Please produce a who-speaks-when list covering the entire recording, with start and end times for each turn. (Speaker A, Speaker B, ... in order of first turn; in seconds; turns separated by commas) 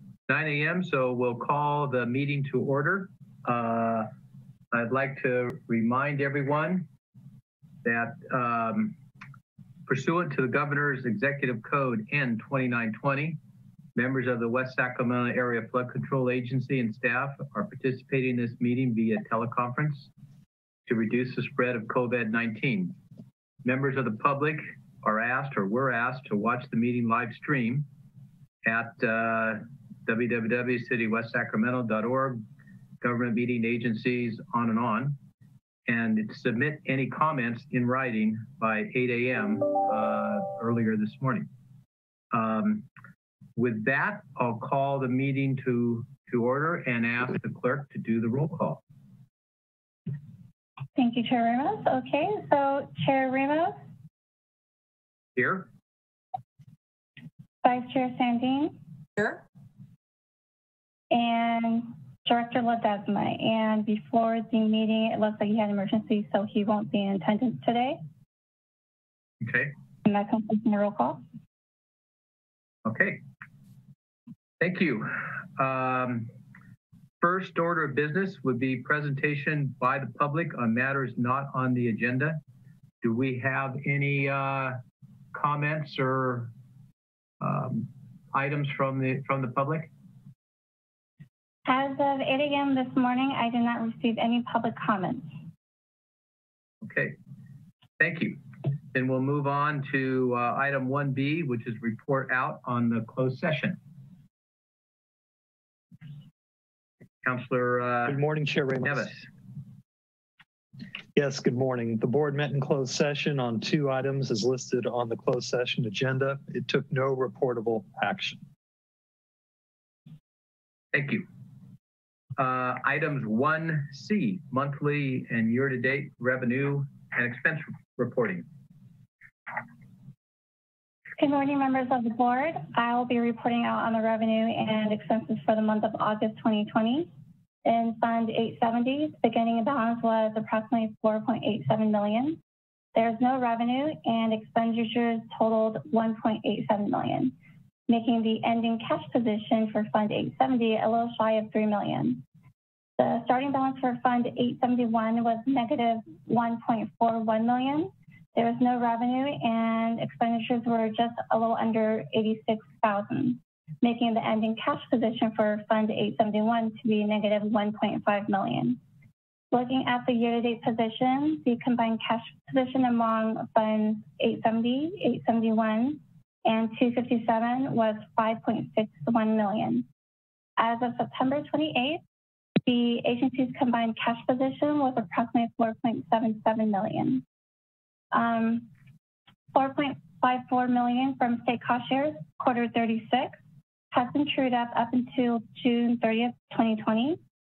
Speaker A: 0.3-4.1, Speaker A: 4.7-6.9, Speaker A: 7.8-9.0, Speaker A: 9.9-13.4, Speaker A: 13.9-20.1, Speaker A: 20.9-23.0, Speaker A: 23.6-27.9, Speaker A: 28.6-32.4, Speaker A: 33.0-35.2, Speaker A: 35.9-41.5, Speaker A: 42.3-42.9, Speaker A: 43.6-48.8, Speaker B: 51.0-53.8, Speaker A: 55.4-55.7, Speaker B: 57.6-58.8, Speaker B: 61.1-68.0, Speaker A: 69.4-69.7, Speaker B: 70.1-71.2, Speaker A: 72.8-73.2, Speaker A: 74.6-76.3, Speaker A: 77.2-82.4, Speaker A: 83.0-84.8, Speaker A: 85.3-86.5, Speaker A: 87.4-89.9, Speaker B: 91.7-95.3, Speaker A: 96.8-97.2, Speaker A: 98.0-103.8, Speaker A: 107.2-108.2, Speaker C: 108.1-109.1, Speaker A: 108.8-109.2, Speaker C: 111.2-118.4, Speaker A: 120.9-121.3, Speaker A: 122.4-128.5, Speaker B: 131.2-137.1, Speaker B: 137.7-142.4, Speaker B: 142.9-147.3, Speaker B: 147.9-152.2, Speaker B: 153.0-168.8, Speaker B: 169.5-179.8, Speaker B: 180.6-182.0, Speaker B: 182.7-187.2, Speaker B: 188.1-188.7, Speaker B: 189.5-193.4, Speaker B: 193.9-197.2